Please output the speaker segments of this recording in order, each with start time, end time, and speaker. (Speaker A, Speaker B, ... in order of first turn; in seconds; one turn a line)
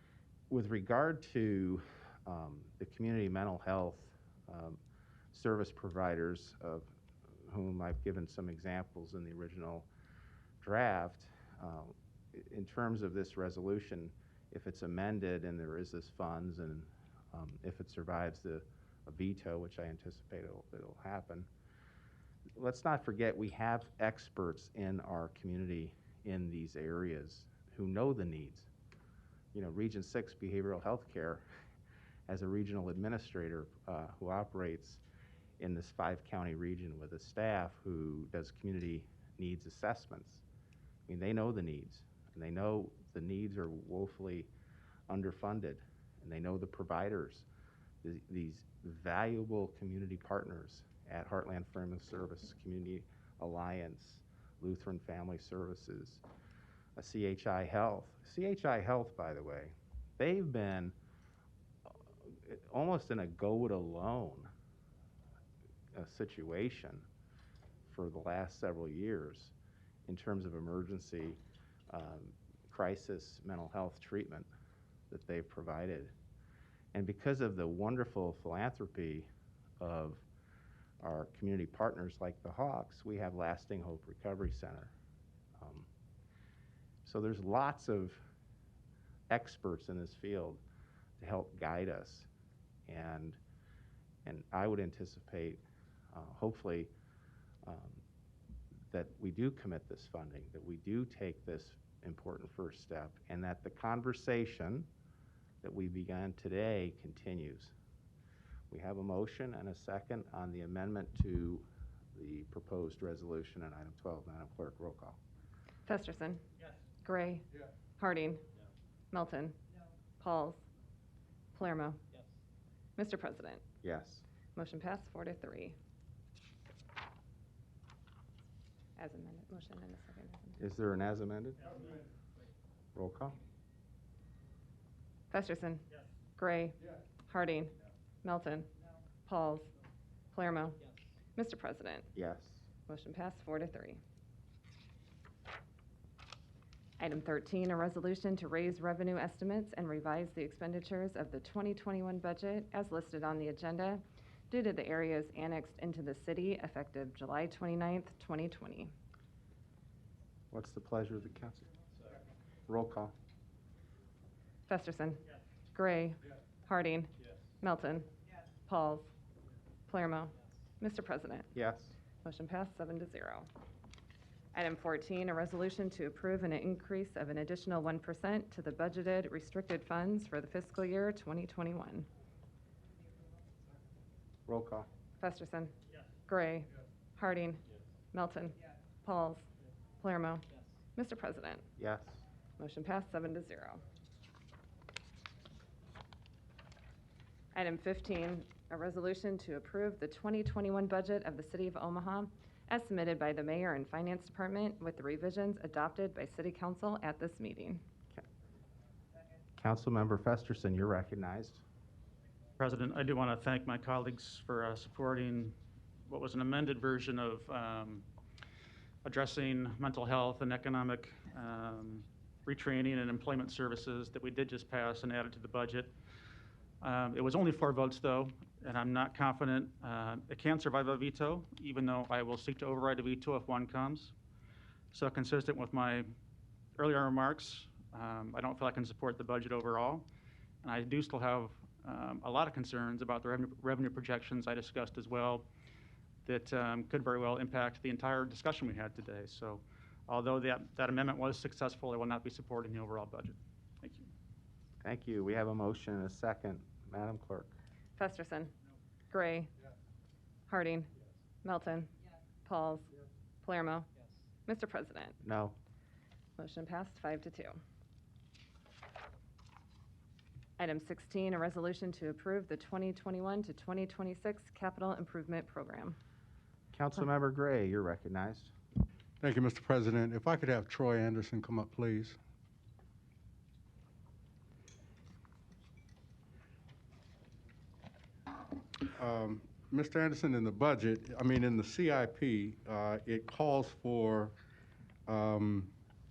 Speaker A: 0.5-4.8
Speaker A: 5.3-6.9
Speaker A: 7.5-9.9
Speaker A: 10.6-21.5
Speaker A: 22.6-28.7
Speaker A: 29.5-31.4
Speaker A: 32.3-35.0
Speaker A: 35.6-40.4
Speaker A: 41.1-44.5
Speaker A: 45.1-47.5
Speaker A: 48.0-56.2
Speaker A: 57.0-61.0
Speaker A: 62.2-64.5
Speaker A: 65.9-67.1
Speaker A: 67.8-69.5
Speaker A: 70.1-74.5
Speaker A: 75.1-76.1
Speaker A: 76.9-79.3
Speaker A: 79.8-80.2
Speaker A: 81.0-84.9
Speaker A: 85.6-85.9
Speaker A: 87.0-88.2
Speaker A: 89.3-90.6
Speaker A: 91.2-92.3
Speaker A: 92.9-93.4
Speaker A: 94.2-95.6
Speaker A: 96.1-96.9
Speaker A: 97.7-98.0
Speaker A: 98.9-104.9
Speaker A: 105.6-107.7
Speaker A: 108.7-115.2
Speaker B: 115.9-116.4
Speaker B: 117.0-118.4
Speaker B: 119.1-119.6
Speaker B: 120.2-120.6
Speaker B: 121.5-122.0
Speaker B: 123.0-123.6
Speaker A: 123.8-124.2
Speaker B: 124.5-125.8
Speaker B: 129.0-130.6
Speaker A: 130.6-131.8
Speaker A: 132.9-133.4
Speaker B: 135.3-135.9
Speaker B: 136.4-138.7
Speaker B: 139.3-139.7
Speaker B: 140.3-142.1
Speaker A: 142.2-142.6
Speaker B: 142.9-144.0
Speaker B: 147.0-158.9
Speaker A: 160.5-161.7
Speaker A: 162.7-163.1
Speaker B: 164.7-168.1
Speaker B: 168.7-169.1
Speaker B: 169.9-171.5
Speaker A: 171.5-172.0
Speaker B: 172.2-173.5
Speaker B: 174.5-182.1
Speaker A: 184.5-184.9
Speaker B: 185.2-185.7
Speaker B: 186.3-189.4
Speaker B: 190.0-191.7
Speaker A: 191.8-192.2
Speaker B: 192.6-193.8
Speaker B: 197.6-207.8
Speaker A: 209.6-211.6
Speaker C: 212.6-215.6
Speaker C: 216.1-218.1
Speaker C: 219.0-225.9
Speaker C: 226.8-234.1
Speaker C: 234.9-236.1
Speaker C: 236.8-240.1
Speaker C: 240.6-245.5
Speaker C: 246.2-254.1
Speaker A: 254.8-257.6
Speaker B: 258.0-258.5
Speaker B: 259.1-259.5
Speaker B: 260.5-260.9
Speaker B: 261.4-261.9
Speaker B: 262.4-262.9
Speaker B: 263.4-263.9
Speaker B: 264.5-265.2
Speaker A: 265.2-265.6
Speaker B: 266.4-267.6
Speaker B: 270.6-276.0
Speaker A: 276.7-278.5
Speaker D: 279.2-282.2
Speaker D: 288.9-294.4
Speaker D: 295.1-295.7